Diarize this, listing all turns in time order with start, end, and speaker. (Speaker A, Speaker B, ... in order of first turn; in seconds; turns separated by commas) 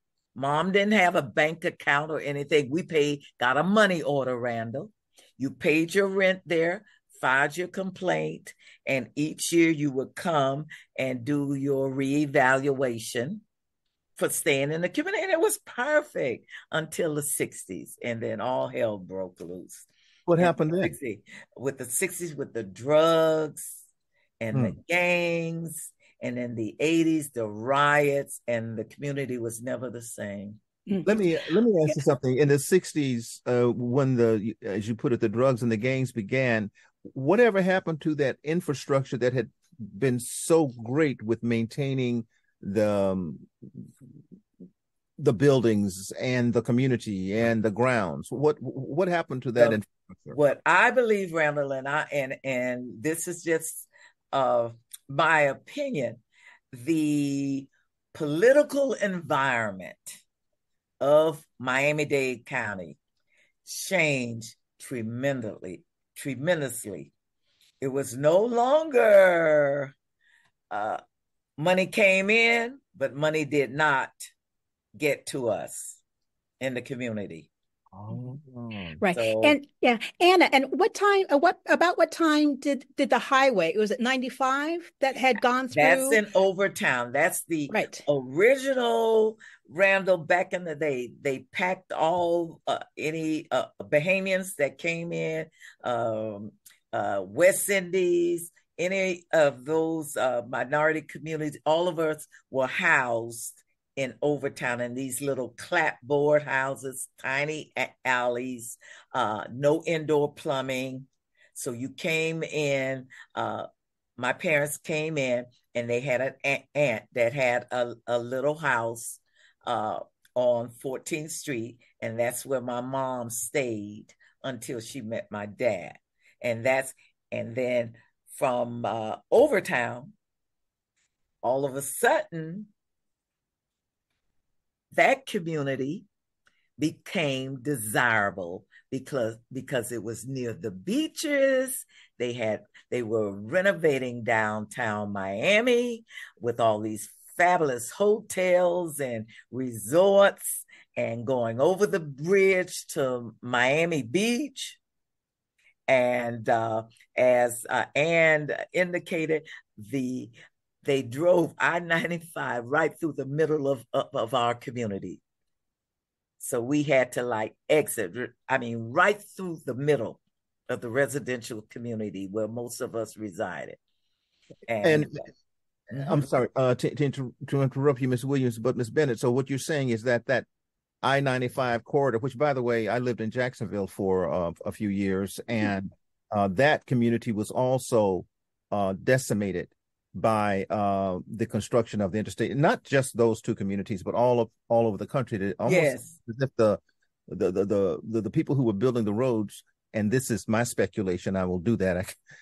Speaker A: 0.3-13.4, Speaker A: 14.2-19.9, Speaker B: 20.3-20.9, Speaker A: 20.4-23.8, Speaker A: 24.4-30.6, Speaker B: 31.0-43.5, Speaker B: 45.2-50.4, Speaker A: 50.3-56.2, Speaker A: 56.7-60.2, Speaker A: 61.0-63.0, Speaker A: 63.7-67.1, Speaker A: 67.8-69.9, Speaker A: 70.7-71.0, Speaker A: 71.6-74.2, Speaker A: 75.0-76.0, Speaker A: 76.6-77.5, Speaker B: 77.9-79.0, Speaker A: 78.9-79.5, Speaker C: 79.0-86.2, Speaker A: 85.7-113.7, Speaker C: 87.7-88.0, Speaker A: 114.2-130.1, Speaker A: 131.4-132.7, Speaker A: 134.9-136.1, Speaker A: 136.8-154.8, Speaker A: 155.9-165.2, Speaker A: 166.4-173.8, Speaker A: 174.7-175.3, Speaker B: 174.8-175.2, Speaker B: 175.9-180.5, Speaker B: 181.0-202.2, Speaker A: 195.7-196.1